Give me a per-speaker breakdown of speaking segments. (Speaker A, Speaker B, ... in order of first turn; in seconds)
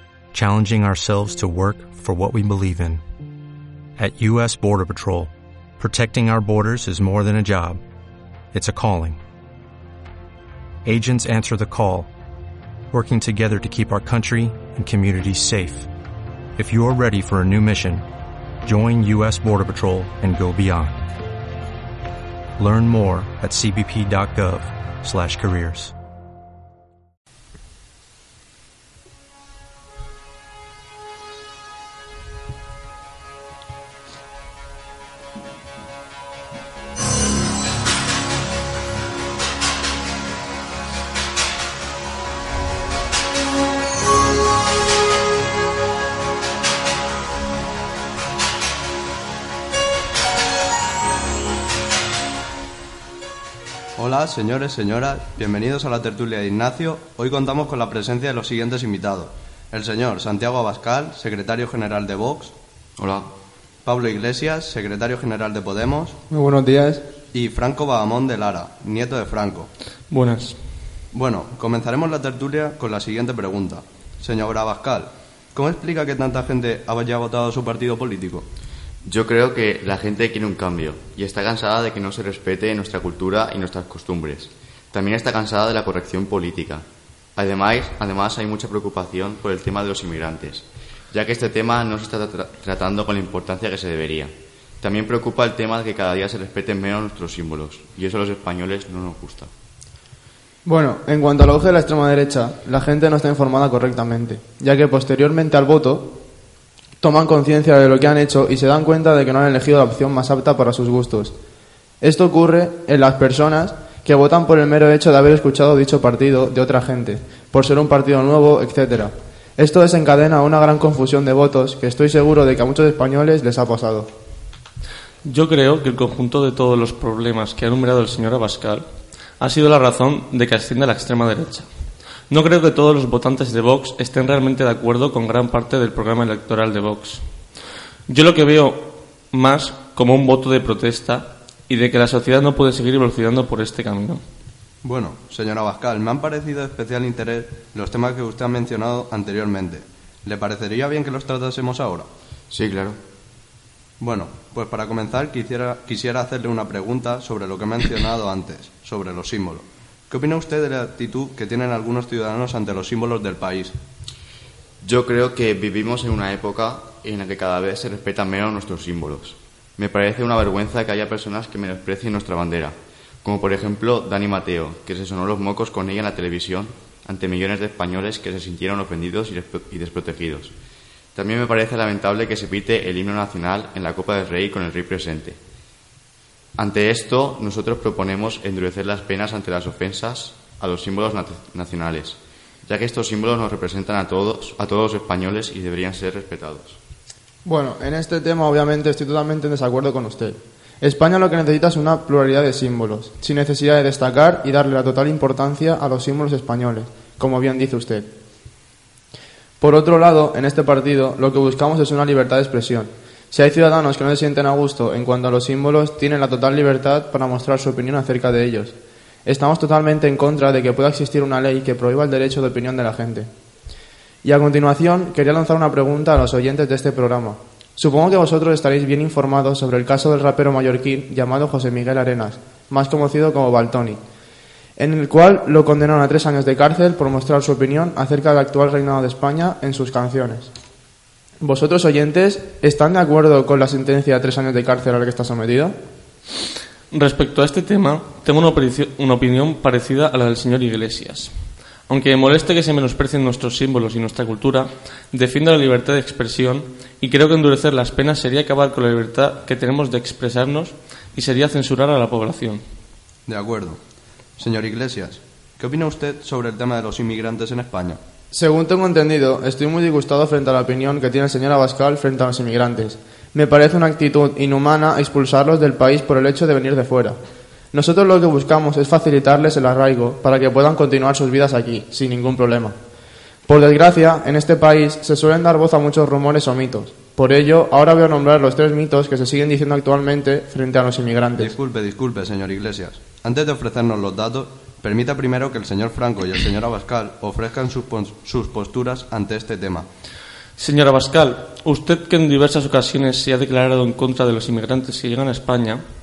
Speaker A: 0.3-3.0, 4.0-7.8, 8.5-9.2, 10.8-12.1, 12.9-15.9, 16.6-18.1, 18.6-21.1, 22.6-25.9
Speaker B: 54.0-62.5, 63.9-66.2, 67.3-69.7, 71.1-78.5, 144.8-152.1, 154.0-163.8, 263.3-263.8, 264.4-268.0, 291.4-299.9
Speaker C: 63.0-63.3, 79.0-86.8, 87.4-94.3, 94.8-99.5, 152.5-153.0, 164.8-180.5, 181.2-185.4, 186.6-196.8
Speaker D: 66.3-67.0, 100.7-106.2, 107.0-111.3, 112.0-124.1, 197.4-208.1, 209.6-223.3, 224.2-234.0, 234.8-240.5, 241.4-245.8, 268.3-277.2, 277.7-282.8, 283.5-291.5
Speaker E: 70.1-70.6, 125.2-128.9, 129.4-131.7, 132.3-137.2, 138.1-144.2, 246.9-251.3, 251.9-262.6, 300.6-305.8